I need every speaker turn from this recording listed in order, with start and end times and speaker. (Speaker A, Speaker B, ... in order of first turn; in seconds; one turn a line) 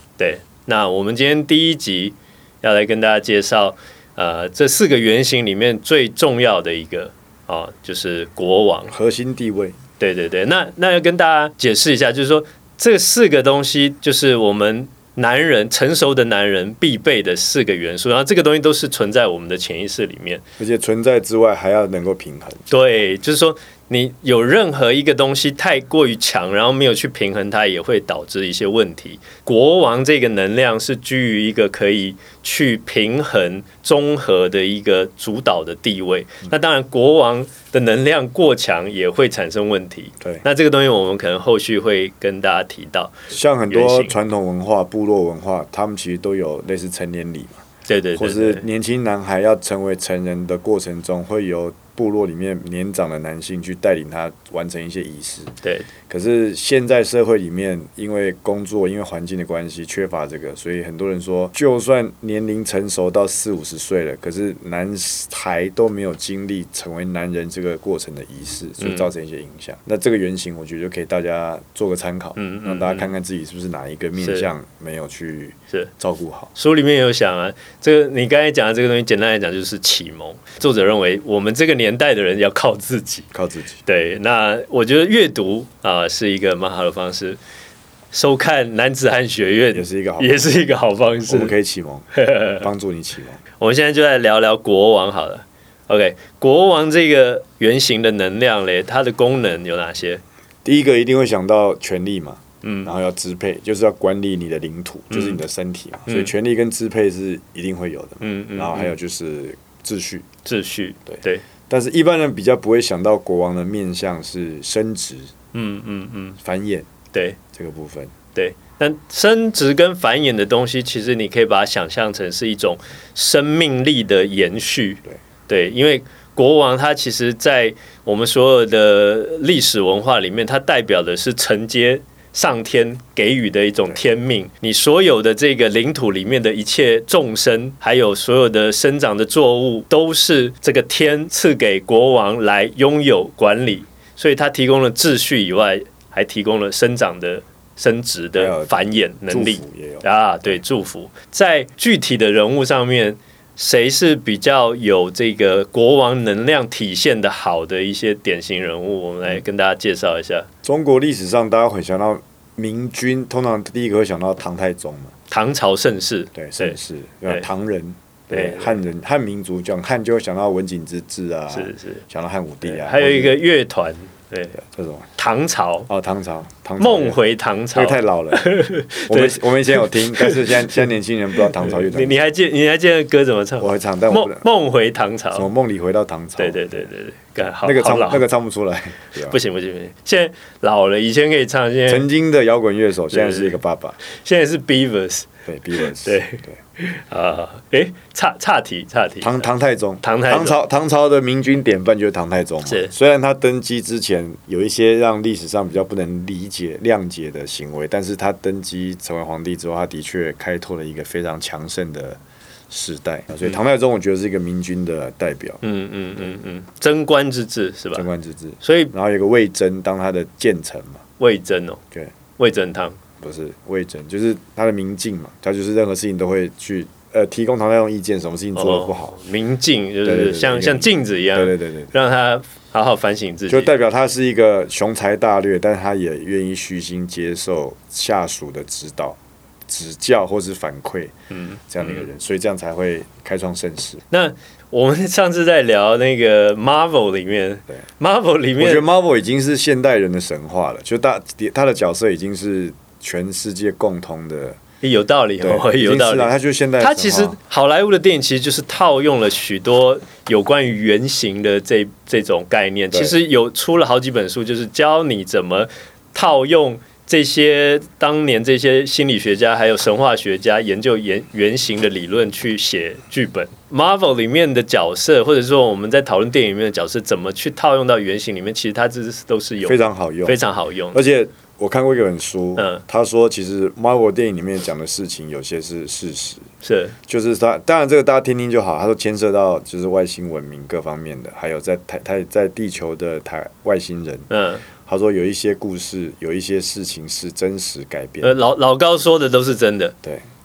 Speaker A: 0.2-8.9
Speaker B: 8.9-9.8
Speaker A: 10.0-20.4
Speaker B: 20.6-22.7
Speaker A: 22.7-44.1
Speaker B: 43.3-47.6
Speaker A: 47.9-48.6
Speaker B: 48.1-55.5
Speaker A: 55.6-55.9
Speaker B: 56.1-76.5
Speaker A: 68.8-69.1
Speaker A: 72.3-73.1
Speaker A: 74.2-74.5
Speaker A: 76.5-83.3
Speaker B: 83.3-83.8
Speaker A: 83.8-87.4
Speaker A: 88.1-91.5
Speaker B: 89.7-90.6
Speaker B: 91.3-93.4
Speaker A: 92.1-92.7
Speaker A: 93.6-100.2
Speaker B: 100.6-110.3
Speaker A: 102.6-102.9
Speaker A: 105.1-105.4
Speaker A: 106.1-106.3
Speaker A: 108.2-108.9
Speaker A: 110.4-111.4
Speaker B: 111.1-115.3
Speaker A: 115.5-116.4
Speaker B: 116.4-116.9
Speaker A: 117.1-117.4
Speaker B: 117.5-118.1
Speaker A: 118.3-160.5
Speaker B: 148.3-150.6
Speaker B: 160.6-165.1
Speaker A: 165.3-166.8
Speaker B: 166.3-173.4
Speaker A: 168.3-168.8
Speaker A: 171.5-172.0
Speaker A: 172.6-174.6
Speaker B: 174.6-175.1
Speaker A: 175.2-175.9
Speaker B: 175.9-177.2
Speaker A: 176.8-185.5
Speaker B: 177.7-178.5
Speaker B: 179.1-182.2
Speaker B: 183.6-184.4
Speaker B: 185.3-186.9
Speaker A: 186.4-188.2
Speaker B: 187.6-189.4
Speaker A: 189.2-192.1
Speaker B: 191.9-194.0
Speaker A: 193.1-199.5
Speaker B: 195.4-196.6
Speaker B: 199.2-215.6
Speaker A: 200.0-200.6
Speaker A: 202.6-202.9
Speaker A: 215.6-218.1
Speaker B: 217.9-221.0
Speaker A: 218.6-218.9
Speaker A: 221.2-221.8
Speaker A: 222.4-223.0
Speaker B: 223.2-229.2
Speaker A: 228.5-233.7
Speaker B: 230.0-231.9
Speaker B: 233.5-241.1
Speaker A: 241.3-242.0
Speaker B: 241.7-244.0
Speaker A: 244.1-248.8
Speaker B: 248.6-254.6
Speaker A: 254.8-281.0
Speaker B: 255.4-257.4
Speaker B: 279.6-280.4
Speaker B: 280.9-286.4
Speaker A: 282.6-282.8
Speaker A: 286.6-286.9
Speaker B: 287.1-294.3
Speaker A: 294.3-294.6
Speaker B: 294.8-298.4
Speaker A: 298.2-299.9